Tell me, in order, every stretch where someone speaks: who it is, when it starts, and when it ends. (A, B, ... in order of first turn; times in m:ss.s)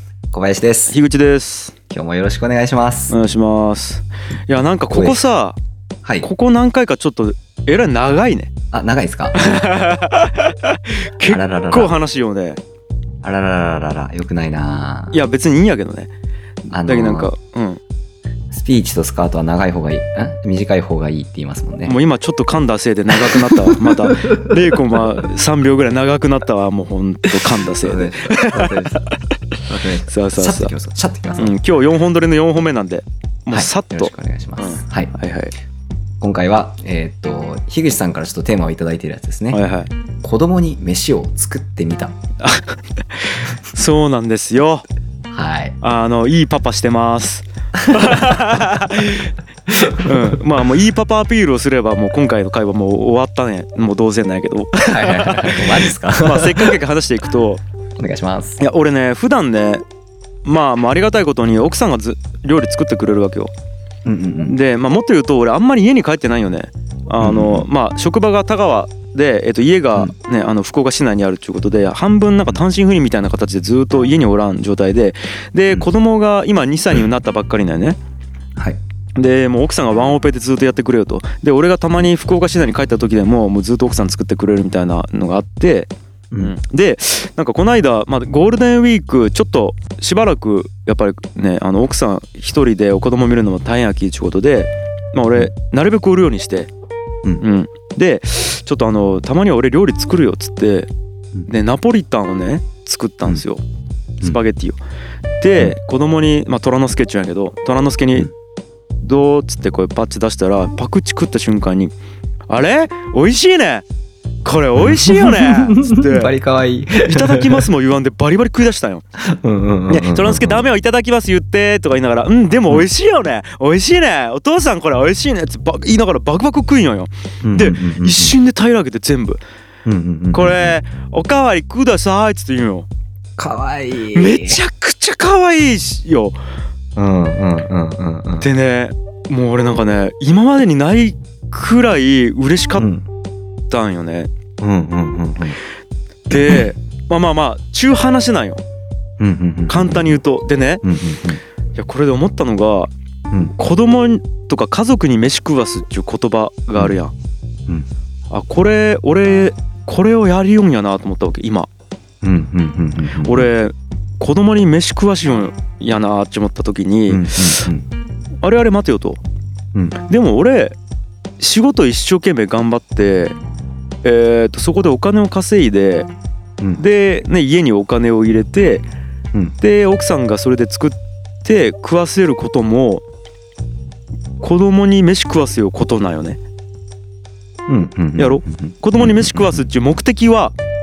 0:00.3-0:00.9 A
0:00.9-0:01.7 B
0:01.9-0:03.2 A
0:03.1-0:05.6 B
0:04.9-0:05.2 A
0:06.0-0:06.3 A
0:06.2-0:08.5 B
0:08.7-0:09.4 A
0:09.3-0:12.6 B
0:11.2-0:11.9 A
0:13.2-0:15.2 A
0:15.1-0:16.1 B
0:16.7-0:17.3 A
0:16.8-0:17.8 B
0:18.5-0:22.0 A
0:21.8-0:29.0 B
0:23.2-0:24.8 A
0:27.8-0:29.0 A
0:29.6-0:31.5 A
0:30.0-0:30.7 B
0:31.4-0:35.5 B
0:33.5-0:35.1 A
0:36.2-0:39.6 A
0:39.5-0:39.9 B
0:40.2-0:42.2 A
0:42.4-0:44.8 B
0:45.3-0:45.8 A
0:45.8-0:49.3 B
0:47.8-0:48.2 A
0:49.7-0:50.4 A
0:49.9-0:57.6 B
0:54.8-0:56.7 A
0:58.0-0:58.6 A
0:58.6-0:59.8 B
1:00.4-1:03.5 B
1:04.0-1:04.6 A
1:04.5-1:18.0 B
1:07.2-1:07.7 A
1:19.2-1:36.7 B
1:37.4-1:40.9 B
1:41.5-1:43.6 B
1:44.2-1:44.8 B
1:45.4-1:48.3 B
1:49.0-1:51.9 B
1:52.5-1:53.8 B
1:54.4-1:56.3 B
1:54.8-1:57.7 A
1:57.0-1:59.0 B
1:59.2-2:00.6 A
1:59.9-2:09.4 B
2:07.4-2:08.4 A
2:09.8-2:10.7 A
2:10.3-2:12.9 B
2:13.4-2:14.6 A
2:14.1-2:16.3 B
2:17.0-2:18.5 A
2:18.4-2:22.9 B
2:22.8-2:23.0 A
2:23.7-2:24.3 B
2:24.6-2:25.6 A
2:26.3-2:28.6 B
2:29.2-2:30.2 A
2:29.7-2:30.8 B
2:30.8-2:31.4 A
2:31.8-2:32.9 B
2:33.6-2:37.1 B
2:38.3-2:41.7 B
2:42.2-2:43.5 A
2:43.2-2:47.6 B
2:47.1-2:47.8 A
2:48.4-2:49.2 B
2:49.7-2:50.0 A
2:50.1-2:50.8 B
2:51.4-2:53.4 B
2:54.0-2:56.1 B
2:56.8-2:58.8 B
2:59.6-3:03.0 B
3:04.4-3:06.4 B
3:07.7-3:09.6 A
3:08.2-3:10.5 B